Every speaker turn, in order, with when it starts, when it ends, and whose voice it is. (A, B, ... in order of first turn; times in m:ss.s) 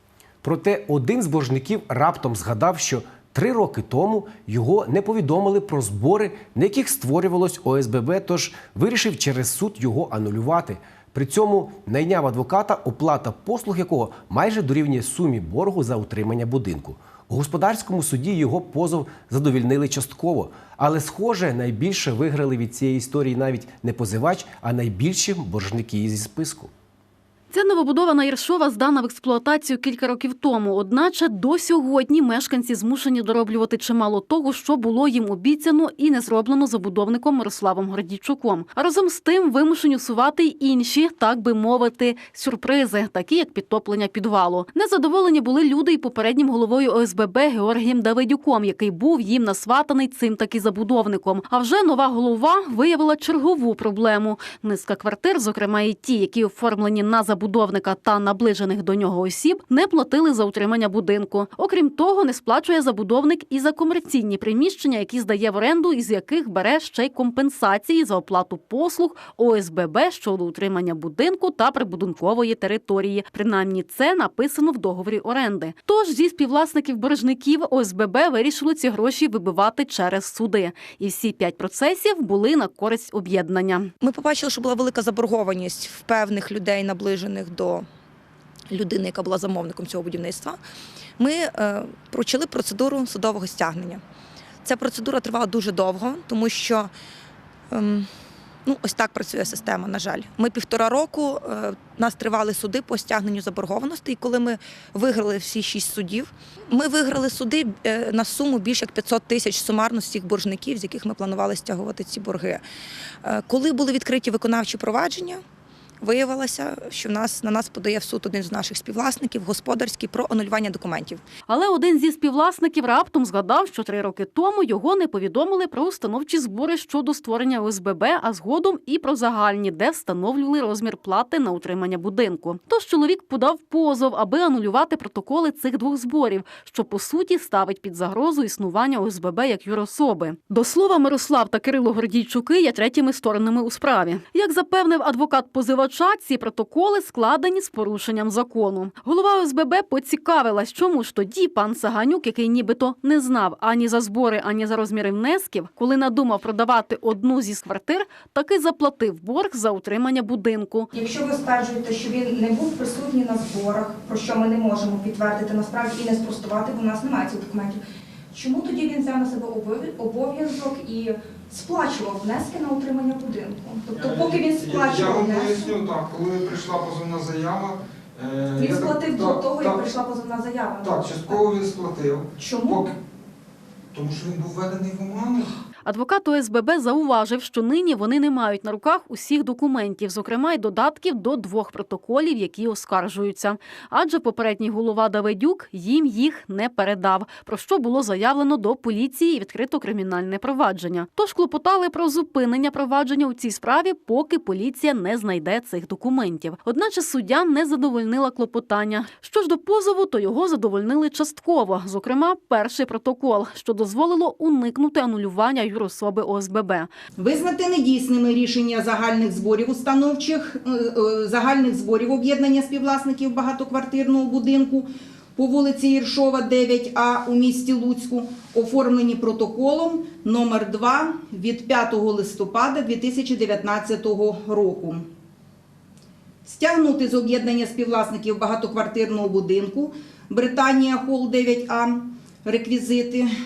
0:00.4-0:26.7 A
0:27.5-1:23.9 B
1:24.0-1:27.8 C
1:28.7-1:30.6 C
1:31.2-1:34.0 C
1:34.6-1:36.9 C
1:37.7-1:38.1 C
1:38.6-1:52.6 C
1:53.2-1:55.4 C
1:56.0-2:01.2 C
2:01.5-2:40.9 B
2:40.9-2:47.8 D
2:48.3-2:55.7 D
2:53.9-2:59.9 E
2:58.6-3:01.2 D
3:00.8-3:02.9 E
3:02.4-3:02.8 D
3:03.9-3:05.5 E
3:05.8-3:36.9 B
3:37.2-3:55.0 F
3:56.4-4:03.3 F